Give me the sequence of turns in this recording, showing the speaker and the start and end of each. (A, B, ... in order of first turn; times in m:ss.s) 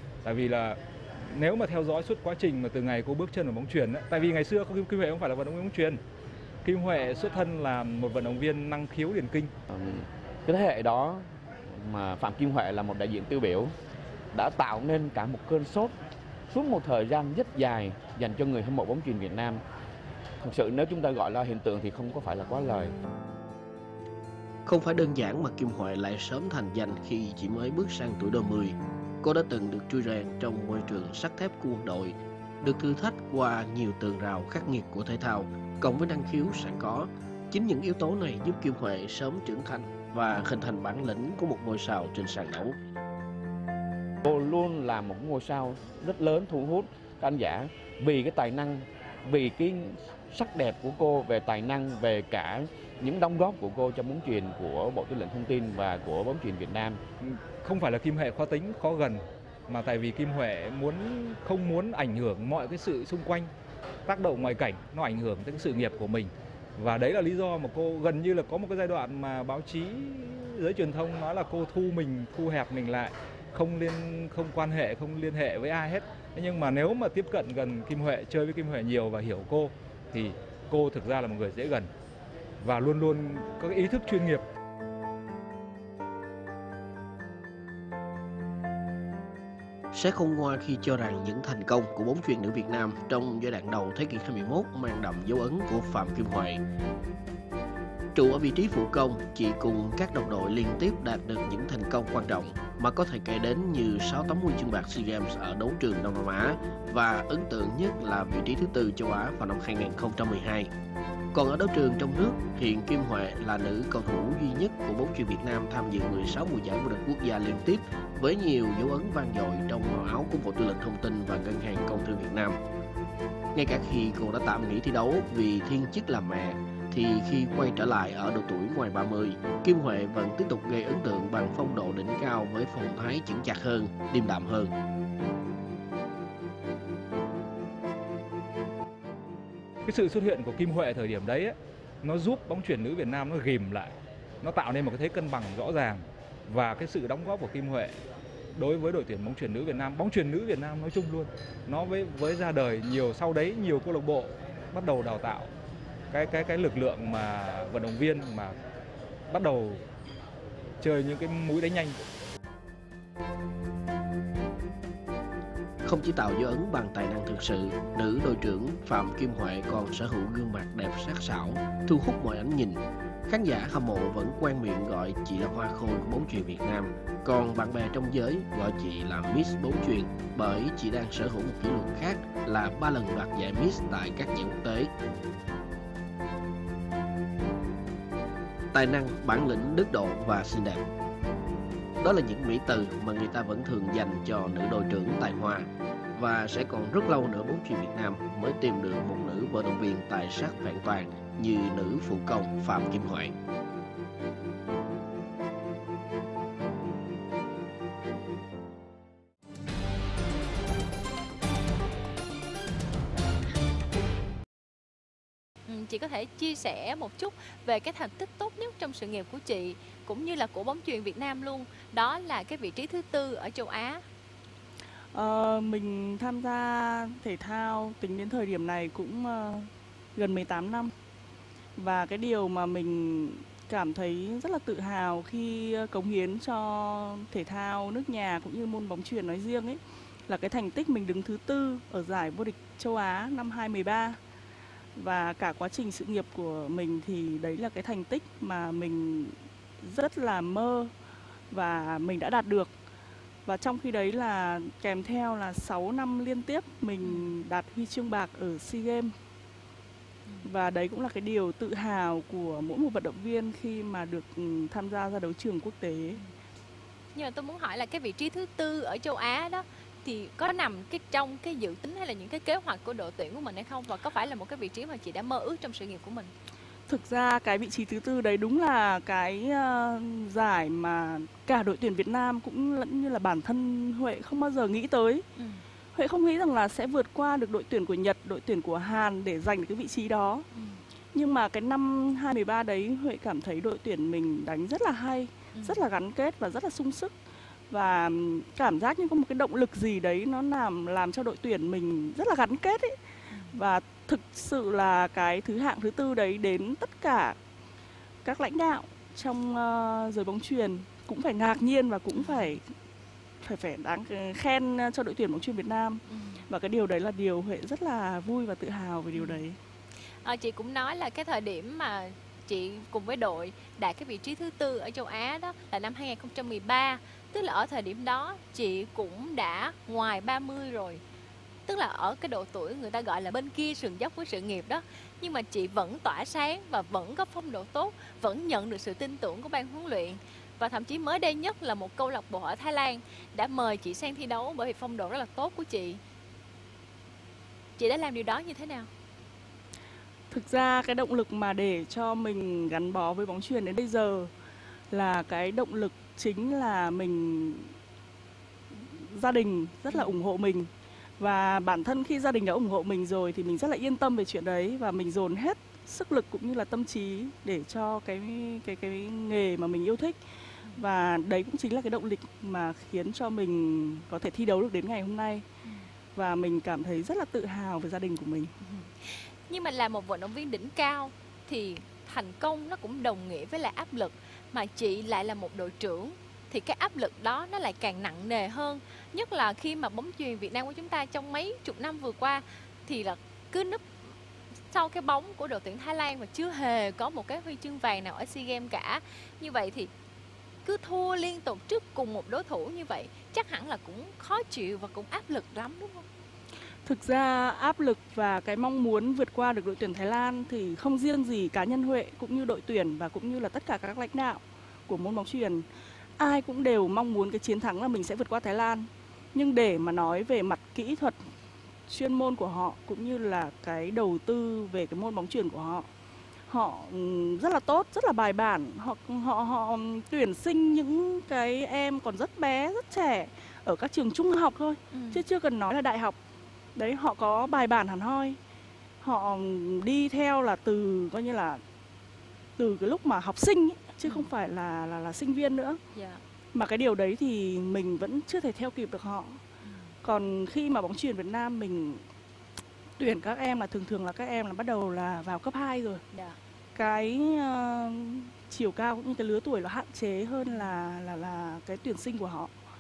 0:00.2-0:06.0 A
0:06.6-0:09.5 A
0:09.7-0:13.7 B
0:14.3-0:15.9 B
0:16.5-0:19.6 B
0:20.4-0:22.9 B
0:24.7-0:42.8 C
0:44.2-0:57.0 B
0:57.2-1:03.5 A
1:04.1-1:21.9 A
1:22.6-1:24.4 A
1:29.9-1:36.6 C
1:38.2-1:50.7 C
1:51.3-2:02.6 C
2:03.5-2:14.7 C
2:19.8-2:28.0 A
2:28.6-2:35.5 A
2:36.1-2:38.6 A
2:39.3-2:39.8 A
2:40.8-2:42.0 A
2:45.8-3:04.9 C
3:08.7-3:10.8 C
3:12.0-3:23.4 C
3:35.7-3:44.0 D
3:45.1-3:50.9 E
3:51.8-4:04.2 E
4:05.0-4:10.9 E
4:11.5-4:12.7 E
4:13.5-4:19.1 E
4:17.0-4:17.3 D
4:20.4-4:26.2 E
4:27.2-4:36.3 D
4:36.9-4:45.2 E
4:45.4-4:45.6 D
4:46.0-4:50.5 E
4:50.5-4:50.8 D
4:51.1-4:57.1 E
4:55.5-4:55.9 D
4:57.7-5:03.0 E
5:03.3-5:03.6 D
5:03.5-5:07.4 E
5:08.2-5:12.6 E
5:12.1-5:12.6 D
5:13.4-5:19.6 E
5:16.1-5:16.4 D
5:19.2-5:19.4 D
5:20.2-5:31.0 D
5:31.7-5:46.0 D
5:47.8-5:48.9 D
5:50.3-5:54.3 E
5:54.9-5:57.7 E
5:58.7-6:00.7 E
5:59.9-6:00.2 D
6:01.2-6:10.2 E
6:10.8-6:15.4 E
6:16.2-6:18.5 E
6:18.6-6:34.0 D
6:34.7-6:39.9 D
6:40.6-6:46.0 D
6:46.9-6:55.6 E
6:56.2-7:01.2 E
7:01.9-7:05.9 E
7:06.5-7:16.2 E
7:14.9-7:15.2 D
7:16.8-7:18.4 E
7:19.0-7:21.6 E
7:22.6-7:25.8 E
7:24.0-7:24.3 D
7:25.9-7:26.2 D
7:26.6-7:29.4 E
7:29.6-7:29.9 D
7:30.0-7:32.0 E
7:33.0-7:36.0 E
7:36.8-7:42.5 E